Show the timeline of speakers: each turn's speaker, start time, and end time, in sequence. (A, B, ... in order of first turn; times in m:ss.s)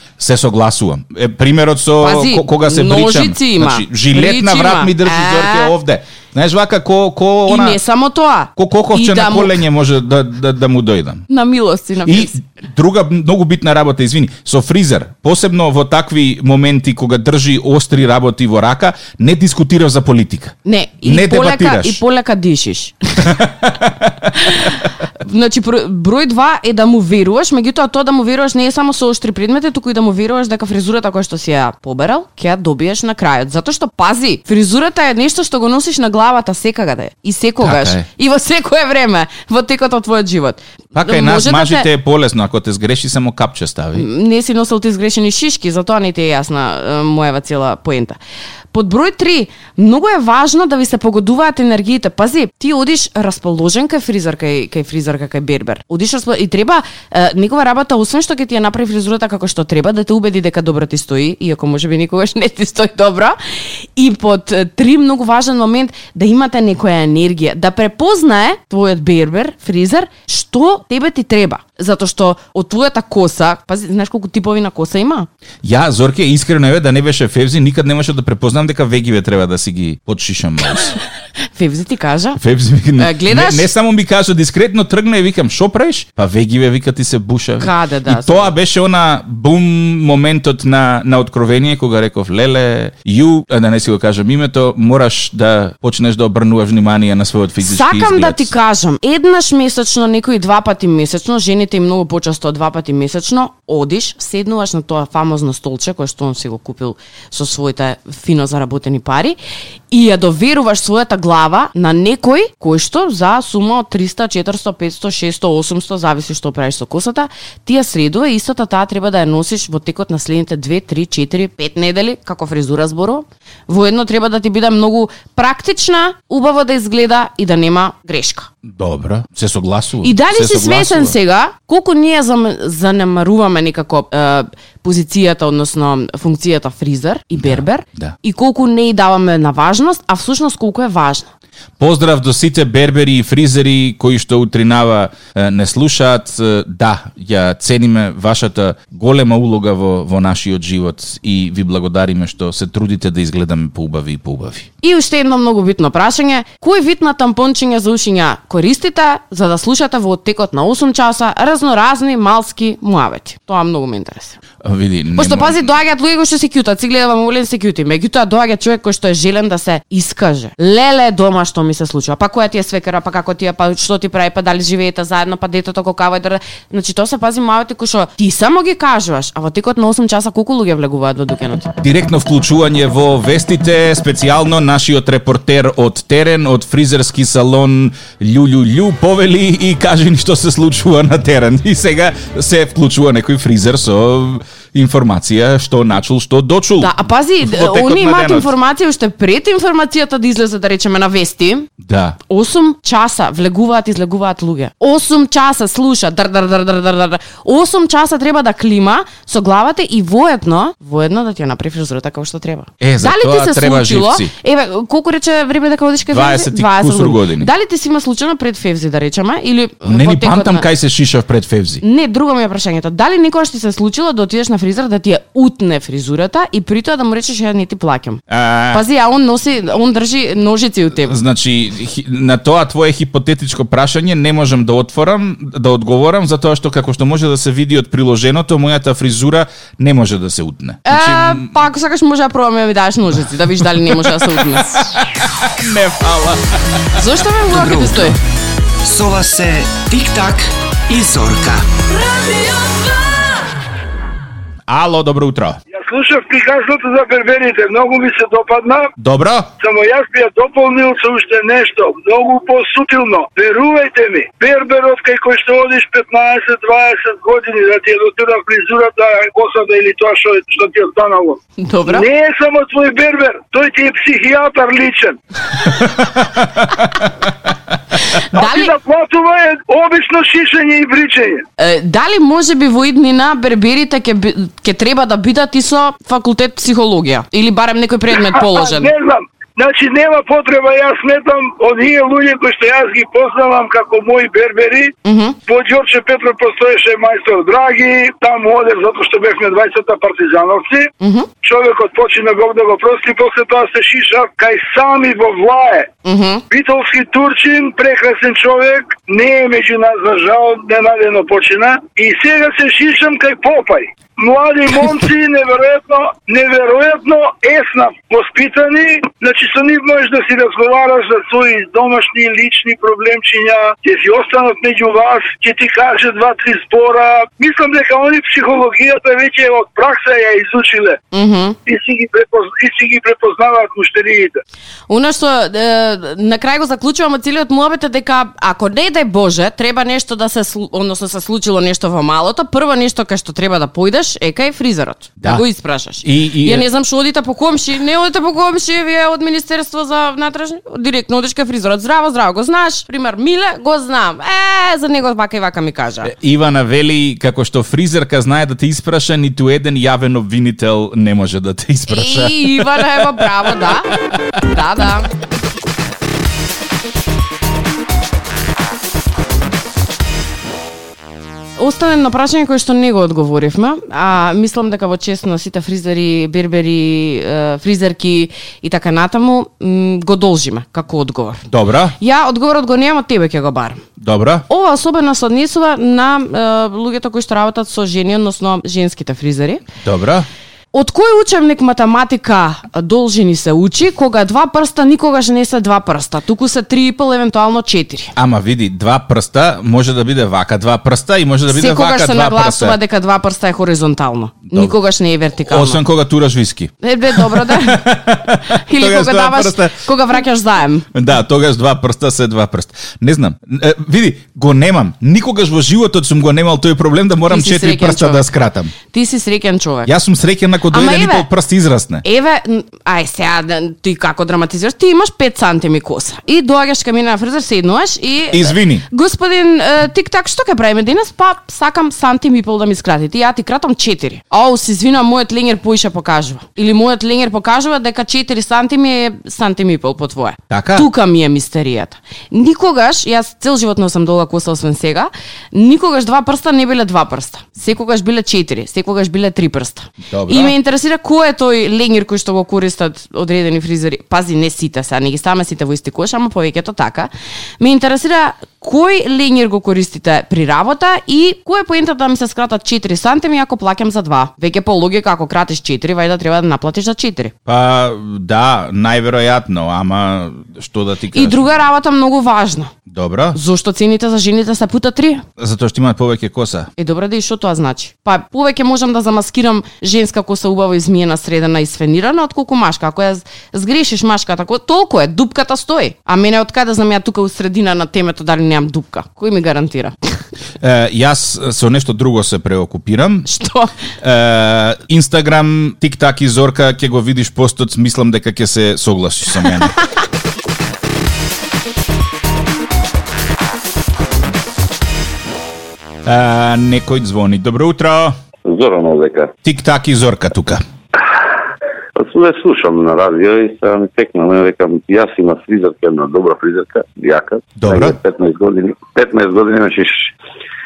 0:00.2-0:07.8 A
0:02.0-0:05.7 B
0:07.5-0:09.6 B
0:08.6-0:11.3 A
0:11.3-0:12.4 B
0:12.0-0:22.0 A
0:20.6-0:23.4 B
0:23.2-0:24.3 A
0:24.4-0:41.9 B
0:37.6-0:38.1 A
0:41.0-0:44.1 A
0:44.0-0:48.2 B
0:48.7-1:15.3 B
1:15.6-1:21.0 A
1:21.6-1:22.4 B
1:22.4-1:38.5 A
1:23.0-1:23.7 B
1:27.6-1:28.5 B
1:37.6-1:49.4 B
1:49.9-2:08.5 B
2:08.6-2:11.2 A
2:10.0-2:21.3 B
2:17.4-2:18.2 A
2:21.8-2:34.7 A
2:34.8-2:44.4 B
2:44.6-2:45.7 A
2:45.2-3:01.7 B
3:01.8-3:18.5 A
3:16.8-3:21.7 B
3:21.8-3:22.2 A
3:22.3-3:40.7 B
3:32.8-3:34.3 A
3:36.1-3:37.5 A
3:39.8-3:41.8 A
3:41.8-3:51.2 B
3:48.3-3:48.8 A
3:51.0-4:01.5 A
4:00.9-4:04.8 B
4:04.8-4:06.4 A
4:07.0-4:08.2 B
4:07.5-4:08.2 C
4:08.8-4:11.6 C
4:14.7-4:15.6 A
4:15.7-4:18.9 D
4:19.0-4:19.5 A
4:19.6-4:35.8 D
4:31.6-4:32.1 B
4:38.1-4:38.7 B
4:38.4-4:41.4 D
4:41.6-4:48.9 B
4:48.4-4:55.0 D
4:55.0-4:55.4 B
4:55.5-5:00.9 D
5:01.0-5:01.3 B
5:01.4-5:05.9 D
5:06.0-5:06.4 B
5:06.5-5:31.0 D
5:31.1-5:31.6 B
5:31.7-5:34.4 D
5:34.9-5:56.1 B
5:46.0-5:46.7 A
5:56.0-6:03.2 A
6:01.9-6:05.1 B
6:11.6-6:21.5 B
6:21.5-6:22.0 A
6:22.0-6:23.8 B
6:24.0-6:24.4 A
6:24.5-6:29.6 B
6:29.8-6:30.3 A
6:30.7-6:38.1 B
6:38.2-6:42.8 A
6:41.5-6:45.8 B
6:44.5-6:44.8 A
6:45.4-6:49.9 A
6:46.8-6:50.9 B
6:50.9-6:58.7 A
6:57.3-6:58.3 B
6:58.9-6:59.9 B
6:59.9-7:02.0 A
7:00.7-7:01.3 B
7:02.0-7:47.3 B
7:08.3-7:08.8 A
7:20.5-7:20.9 A
7:30.0-7:30.5 A
7:47.5-7:51.5 A
7:51.1-7:52.7 B
7:52.9-7:53.4 A
7:53.3-7:55.2 B
7:55.4-7:56.7 A
7:56.8-8:10.0 B
8:10.6-8:13.3 A
8:13.3-8:13.7 B
8:14.0-8:19.8 A
8:26.0-8:28.2 A
8:28.4-8:29.4 E
8:29.4-8:30.6 A
8:32.0-8:40.1 E
8:37.6-8:38.0 A